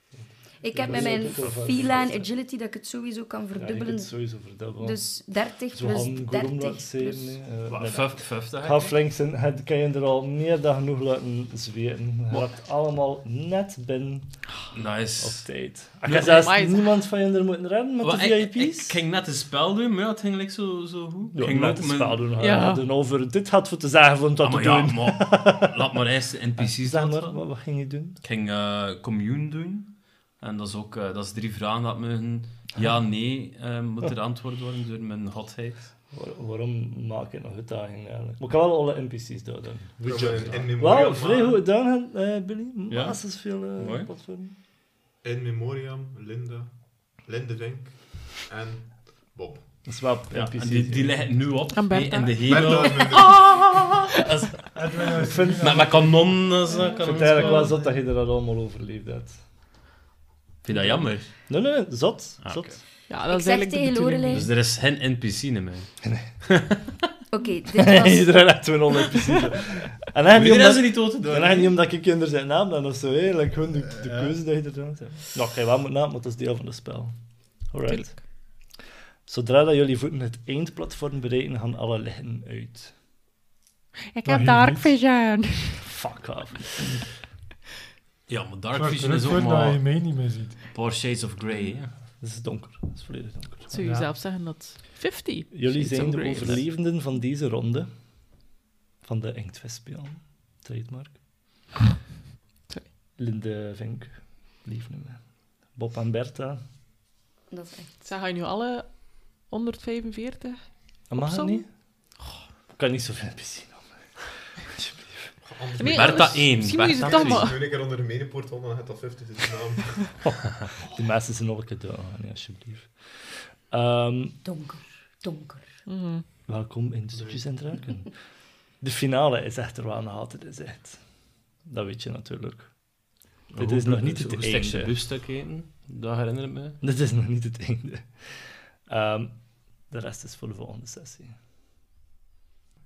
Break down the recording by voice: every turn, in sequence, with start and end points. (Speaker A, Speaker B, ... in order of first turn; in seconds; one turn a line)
Speaker A: 0.6-4.1
Speaker B: 0.8-2.3
Speaker B: 3.6-5.0
Speaker A: 4.8-7.3
Speaker B: 5.7-14.3
Speaker C: 7.7-8.9
Speaker C: 14.7-15.5
Speaker B: 15.2-19.0
Speaker C: 16.0-16.5
Speaker D: 16.2-16.9
Speaker C: 18.0-22.3
Speaker B: 21.3-25.8
Speaker D: 22.4-22.8
Speaker C: 24.4-27.4
Speaker B: 26.6-28.2
Speaker C: 28.2-35.9
Speaker B: 36.1-40.0
Speaker E: 40.0-41.6
Speaker C: 40.0-40.7
Speaker B: 40.8-44.5
Speaker C: 42.9-44.1
Speaker E: 45.2-49.6
Speaker B: 49.9-51.3
Speaker C: 50.3-54.6
Speaker D: 51.7-54.0
Speaker E: 52.4-53.5
Speaker F: 54.7-56.1
Speaker B: 55.1-55.9
Speaker C: 55.6-57.8
Speaker D: 56.9-57.7
Speaker B: 57.0-59.4
Speaker C: 60.6-61.3
Speaker B: 60.7-62.8
Speaker C: 62.4-62.8
Speaker D: 63.1-64.5
Speaker A: 63.3-64.5
Speaker C: 64.3-66.8
Speaker A: 67.3-68.4
Speaker B: 67.8-77.1
Speaker C: 70.3-71.8
Speaker B: 77.7-78.2
Speaker D: 77.9-78.2
Speaker B: 79.3-82.9
Speaker D: 84.1-85.8
Speaker F: 84.3-84.9
Speaker B: 85.8-87.0
Speaker C: 88.3-89.8
Speaker F: 88.7-90.6
Speaker C: 90.7-91.9
Speaker B: 92.2-93.8
Speaker D: 93.7-96.6
Speaker B: 95.5-97.9
Speaker B: 99.0-101.2
Speaker B: 103.2-105.2
Speaker B: 105.7-106.6
Speaker A: 107.5-108.0
Speaker D: 108.0-111.7
Speaker B: 111.1-111.7
Speaker B: 112.8-113.9
Speaker B: 114.6-115.3
Speaker E: 115.5-120.0
Speaker D: 115.8-117.6
Speaker C: 115.8-117.5
Speaker B: 120.8-124.4
Speaker A: 124.4-125.7
Speaker D: 125.9-126.2
Speaker B: 126.5-128.1
Speaker B: 128.8-131.0
Speaker B: 131.7-132.7
Speaker B: 133.5-134.9
Speaker C: 133.5-136.8
Speaker B: 136.8-139.3
Speaker B: 139.9-141.3